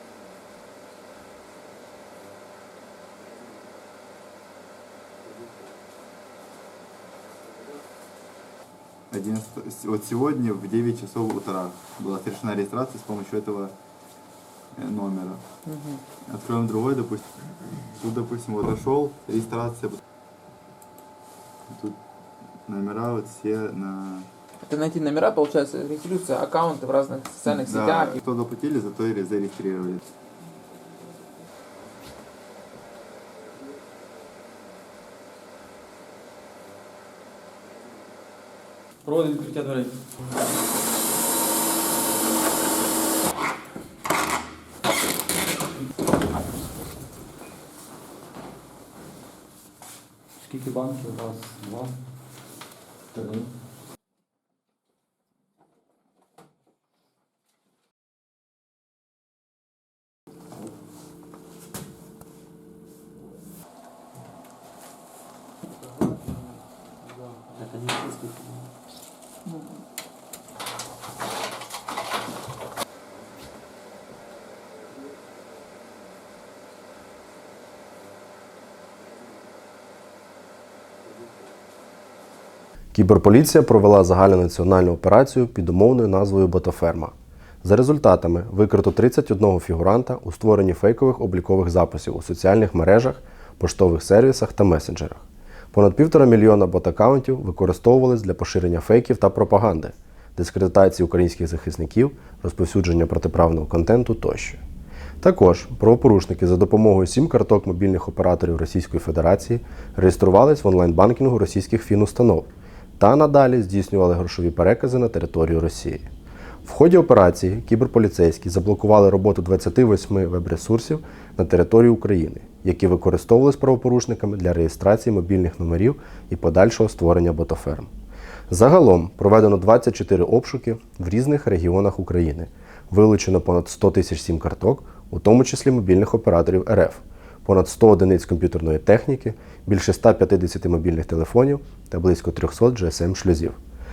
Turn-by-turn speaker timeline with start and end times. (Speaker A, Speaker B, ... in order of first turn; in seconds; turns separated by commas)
Speaker A: 9.1-13.7, Speaker A: 14.7-15.4, Speaker B: 15.7-16.0, Speaker A: 16.2-17.3, Speaker A: 17.9-20.0, Speaker A: 21.7-22.0, Speaker A: 22.6-24.3, Speaker B: 24.6-28.2, Speaker A: 27.4-30.0, Speaker B: 39.1-39.5, Speaker C: 50.4-51.9, Speaker C: 53.1-53.5, Speaker C: 67.6-68.1, Speaker D: 82.9-104.6, Speaker D: 105.2-116.1, Speaker D: 116.6-127.9, Speaker D: 128.5-143.6